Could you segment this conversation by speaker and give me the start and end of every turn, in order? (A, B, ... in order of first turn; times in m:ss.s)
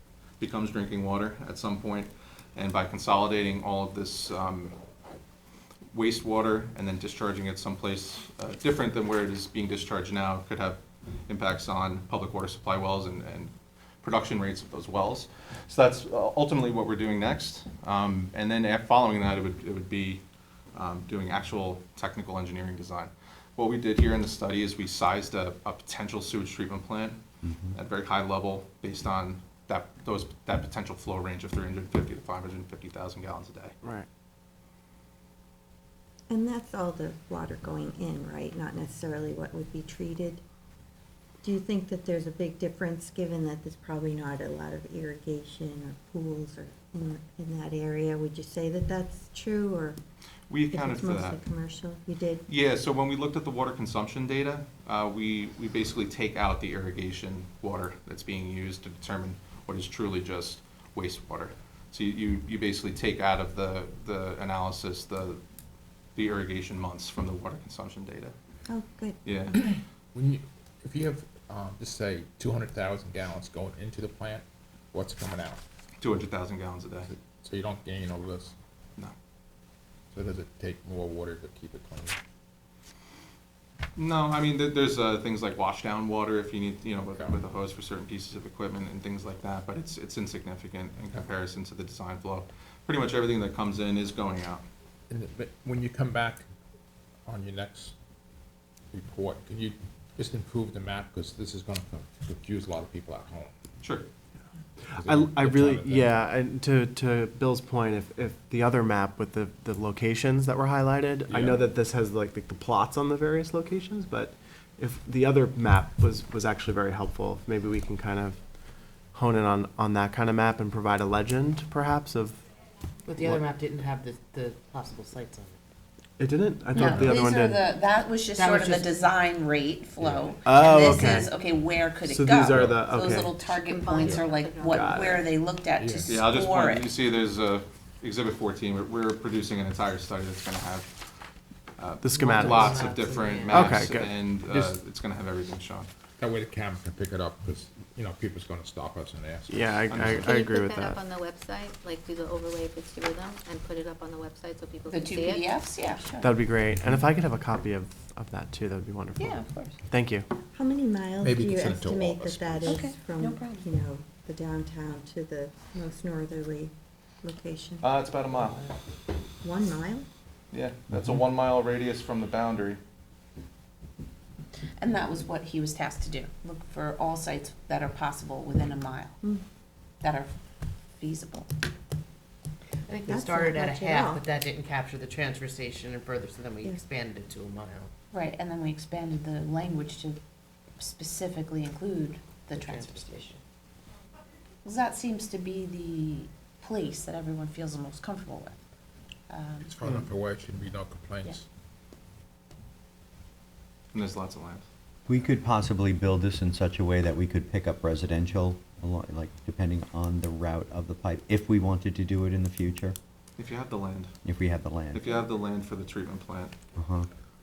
0:00.4-0:04.8 A
0:05.9-0:20.2 A
0:20.7-0:27.2 A
0:27.4-0:27.8 B
0:27.7-0:33.7 A
0:33.8-0:34.1 C
0:36.3-0:40.4 D
0:41.4-0:50.0 D
0:50.5-0:51.4 A
0:50.7-0:52.4 D
0:52.5-1:05.4 A
1:06.2-1:08.3 A
1:08.7-1:09.2 D
1:09.2-1:09.7 A
1:10.1-1:15.6 E
1:16.0-1:17.1 A
1:17.1-1:18.5 E
1:20.1-1:22.2 E
1:24.0-1:34.6 A
1:27.1-1:27.4 E
1:35.1-1:36.5 E
1:37.3-1:37.9 E
1:38.9-1:43.5 E
1:43.8-1:44.1 A
1:44.9-2:02.4 C
1:44.9-1:46.2 E
1:51.3-1:51.7 E
2:03.1-2:05.6 F
2:06.2-2:07.6 C
2:06.7-2:16.9 G
2:06.8-2:07.2 E
2:08.4-2:08.8 F
2:10.0-2:10.3 E
2:10.4-2:11.3 C
2:12.0-2:13.5 C
2:13.6-2:15.3 H
2:14.0-2:14.2 E
2:14.7-2:15.2 C
2:15.7-2:16.2 E
2:16.1-2:21.0 A
2:21.8-2:25.9 A
2:22.0-2:22.9 C
2:22.2-2:23.8 F
2:23.5-2:24.2 C
2:24.5-2:24.8 E
2:26.2-2:30.2 E
2:29.5-2:31.0 C
2:29.9-2:30.2 A
2:29.9-2:35.7 H
2:34.9-2:36.4 G
2:36.2-2:40.3 C
2:39.2-2:39.8 G
2:40.5-2:47.9 D
2:41.2-2:42.8 E
2:42.6-2:43.7 G
2:47.8-2:48.7 A
2:49.4-2:50.1 D
2:50.5-2:52.8 A
2:54.8-2:59.2 G
3:00.0-3:00.3 G
3:01.0-3:01.5 G
3:02.9-3:07.9 F
3:03.0-3:04.2 D
3:08.1-3:10.2 G
3:10.8-3:13.4 G
3:12.6-3:13.4 F
3:14.6-3:18.6 G
3:19.3-3:20.0 G
3:19.6-3:21.4 E
3:23.9-3:24.6 A
3:25.1-3:33.0 B
3:33.4-3:34.1 A
3:34.2-3:35.1 B
3:34.9-3:36.5 A
3:36.8-3:37.1 B